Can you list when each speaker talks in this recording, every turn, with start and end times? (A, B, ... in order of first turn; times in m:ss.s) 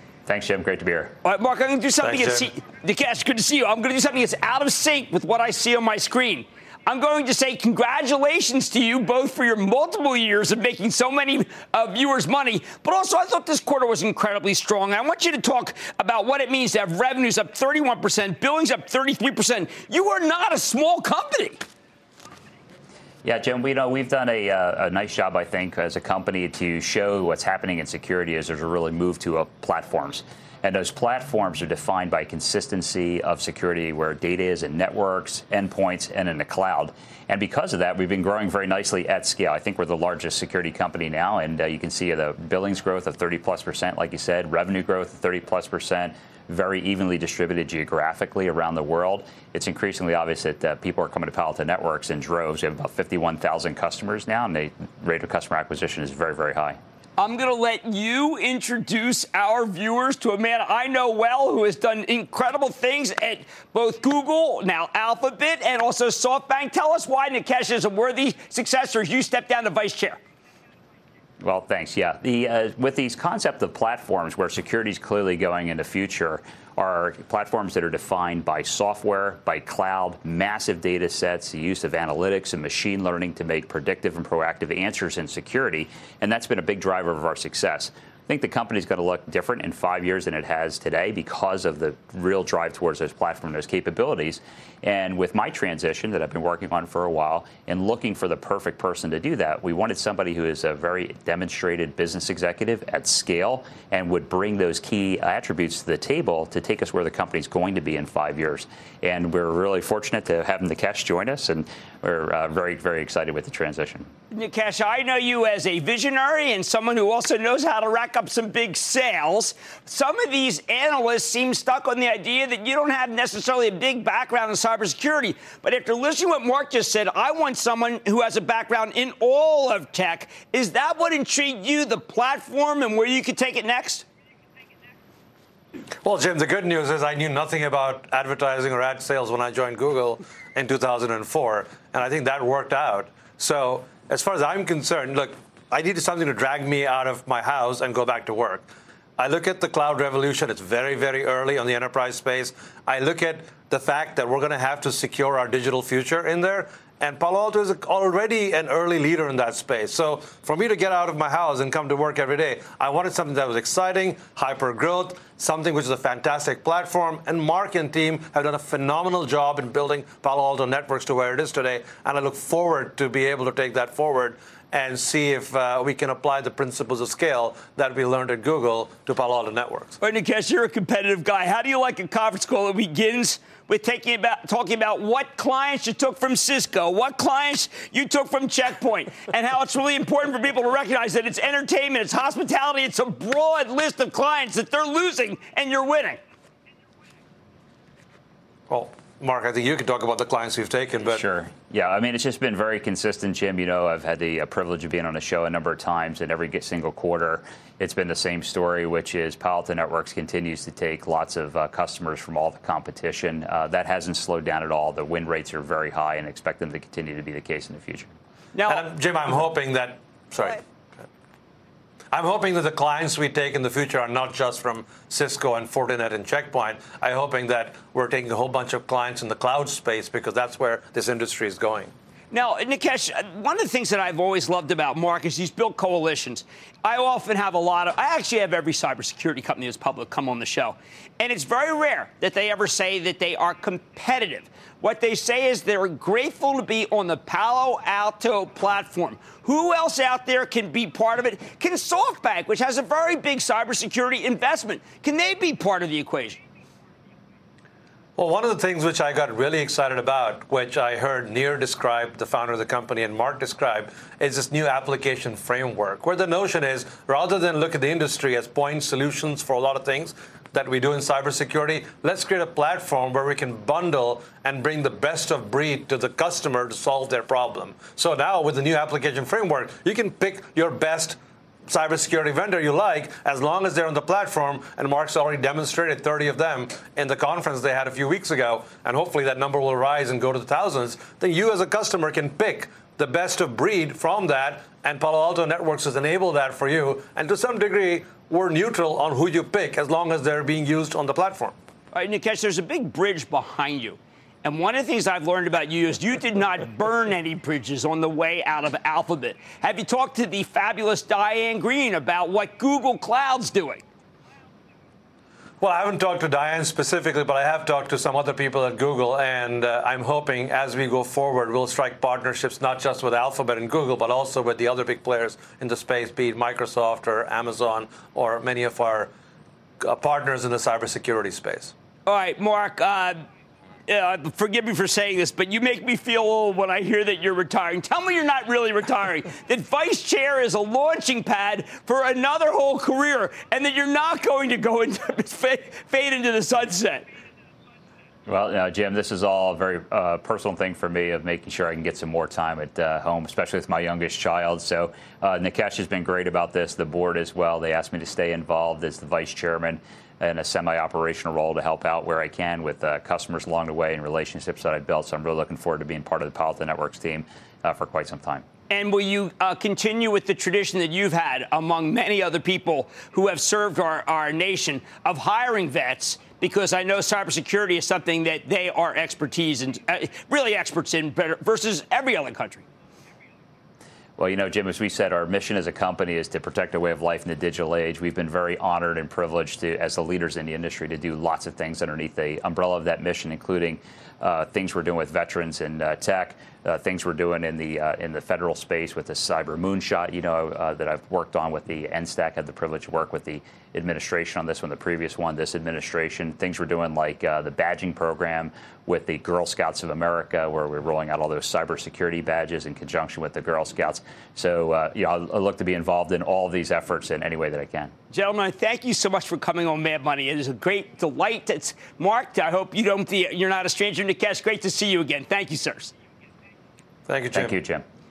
0:00.2-0:01.2 A
0:01.2-0:21.6 B
0:02.0-0:02.5 C
0:23.2-0:56.8 A
0:57.2-1:10.2 B
1:11.4-1:54.1 A
1:54.3-2:14.0 B
2:16.0-3:00.0 C
3:00.0-3:16.2 B
3:18.7-3:21.2 C
3:21.0-3:38.1 A
3:38.5-3:38.9 B
3:38.6-3:40.6 C
3:42.1-3:51.9 C
3:52.3-4:16.4 B
4:18.2-5:01.5 C
5:01.9-5:13.8 B
5:15.6-5:29.1 C
5:29.8-5:31.7 C
5:32.0-5:33.2 B
5:33.9-5:47.0 B
5:48.3-6:08.4 A
6:08.7-6:22.6 B
6:24.2-6:57.9 A
6:58.1-7:05.9 B
7:07.1-7:07.5 C
7:07.3-7:07.8 A